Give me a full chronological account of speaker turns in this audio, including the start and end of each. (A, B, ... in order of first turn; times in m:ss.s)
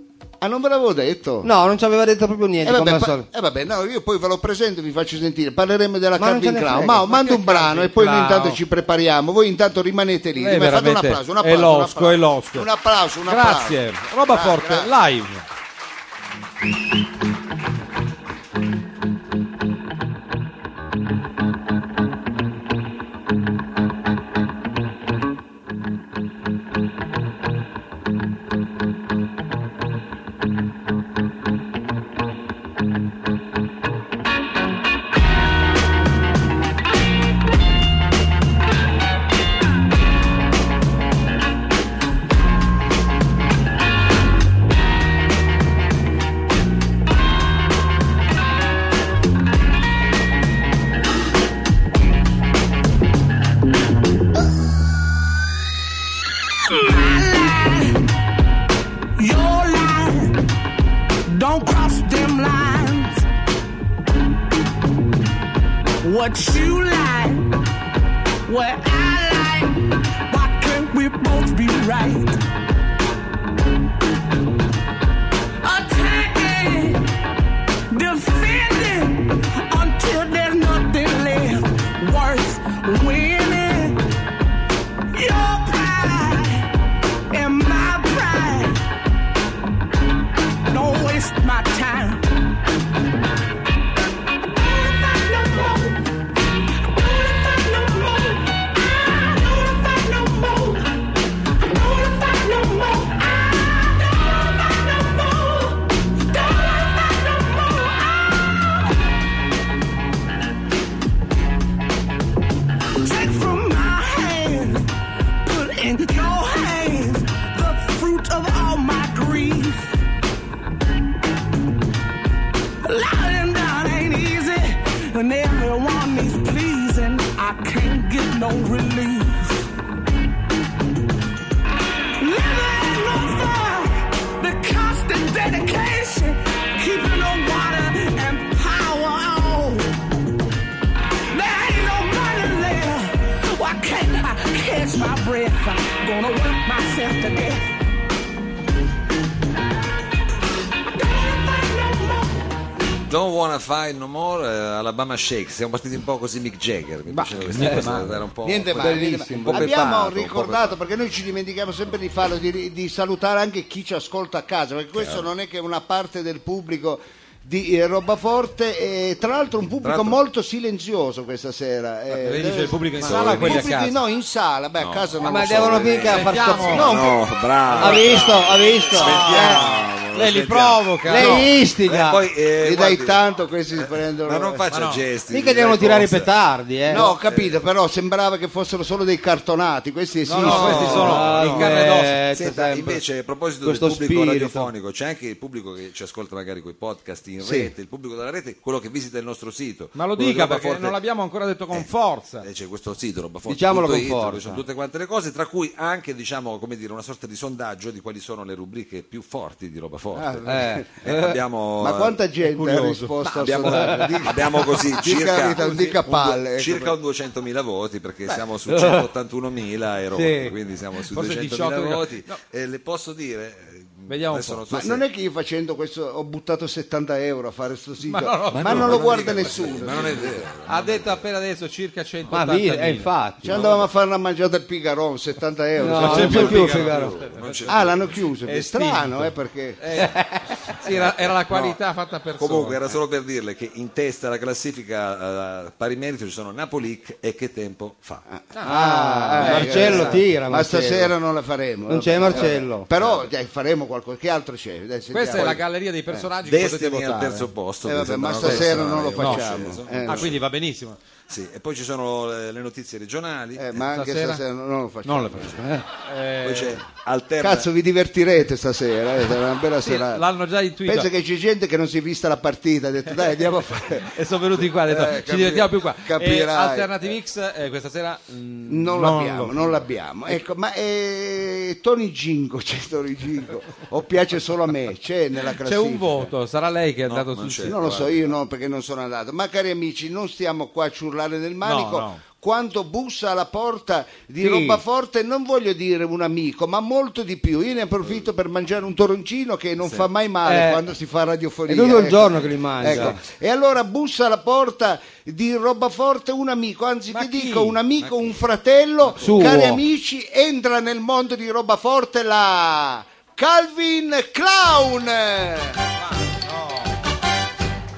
0:00.4-0:01.5 A
0:01.4-0:03.3 B
0:02.6-0:14.9 A
0:06.2-0:07.0 B
0:07.0-0:08.6 C
0:10.4-0:12.7 C
0:13.3-0:15.4 C
0:56.7-0:58.1 D
0:59.2-1:00.4 D
1:01.3-1:03.2 D
1:06.0-1:07.5 D
1:08.5-1:12.4 D
1:15.6-1:17.1 D
1:17.9-1:24.1 D
1:25.1-1:26.7 D
1:27.3-1:28.8 D
1:30.6-1:32.2 D
1:34.5-1:36.1 D
1:36.9-1:48.9 D
1:53.0-1:54.9 D
1:55.4-2:00.0 D
2:02.8-2:09.6 D
2:12.2-2:20.0 D
2:21.3-2:27.7 D
2:31.0-2:32.2 D
2:33.1-2:40.8 E
2:37.1-2:38.2 C
2:37.5-2:38.1 B
2:38.4-2:56.0 A
2:38.7-2:40.0 B
2:45.0-2:45.3 E
2:49.8-2:50.2 E
2:52.1-2:54.0 C
2:53.0-2:53.7 E
2:54.8-3:03.2 E
2:55.2-2:57.2 B
2:56.0-2:57.0 C
2:56.8-2:57.1 A
2:57.7-2:58.2 C
2:57.8-2:59.8 B
2:59.0-3:01.5 C
3:01.1-3:02.2 B
3:02.6-3:04.7 A
3:03.8-3:06.3 E
3:04.7-3:05.0 C
3:05.3-3:07.1 B
3:06.9-3:07.6 E
3:06.9-3:11.3 A
3:10.3-3:12.2 C
3:10.4-3:13.0 B
3:10.4-3:11.8 E
3:12.3-3:21.0 E
3:13.6-3:14.7 B
3:17.4-3:17.7 B
3:20.0-3:22.5 C
3:22.4-3:32.2 E
3:23.5-3:24.6 B
3:30.2-3:30.9 A
3:30.5-3:31.4 B
3:31.8-3:37.0 A
3:32.5-3:33.9 C
3:33.4-3:45.0 E
3:33.6-3:34.3 B
3:35.6-3:36.0 C
3:38.6-3:39.1 B
3:40.1-3:40.6 B
3:41.0-3:42.4 C
3:44.1-3:44.6 C
3:44.7-3:50.5 A
3:48.0-3:50.1 C
3:48.5-3:51.3 E
3:50.7-3:53.1 C
3:52.3-3:53.4 B
3:53.4-3:56.7 A
3:53.5-3:53.9 E
3:55.8-3:57.2 B
3:56.0-3:57.8 C
3:56.0-3:58.2 E
3:57.7-3:59.8 A
3:58.5-4:02.9 C
3:59.9-4:00.7 B
4:00.9-4:01.8 E
4:02.4-4:08.2 E
4:08.3-4:16.2 A
4:08.5-4:08.8 C
4:08.6-4:11.2 B
4:09.4-4:10.3 C
4:11.9-4:12.9 B
4:12.9-4:13.3 E
4:15.1-4:17.5 C
4:16.4-4:20.4 E
4:17.8-4:20.3 A
4:18.4-4:21.0 C
4:21.3-4:23.7 E
4:23.6-4:25.6 A
4:23.9-4:24.4 C
4:25.0-4:26.8 C
4:25.4-4:25.7 E
4:26.4-4:27.7 E
4:27.4-4:30.2 A
4:29.8-4:31.1 C
4:30.9-4:37.1 A
4:34.1-4:39.9 C
4:38.7-4:46.3 A
4:45.5-4:47.8 C
4:47.1-4:48.4 E
4:47.6-5:15.8 A
4:51.6-4:52.2 C
4:54.4-4:54.8 B
4:59.8-5:00.1 E
5:00.4-5:00.8 B
5:01.7-5:03.2 B
5:07.1-5:07.8 C
5:08.0-5:08.3 E
5:09.1-5:09.8 B
5:16.0-5:17.2 C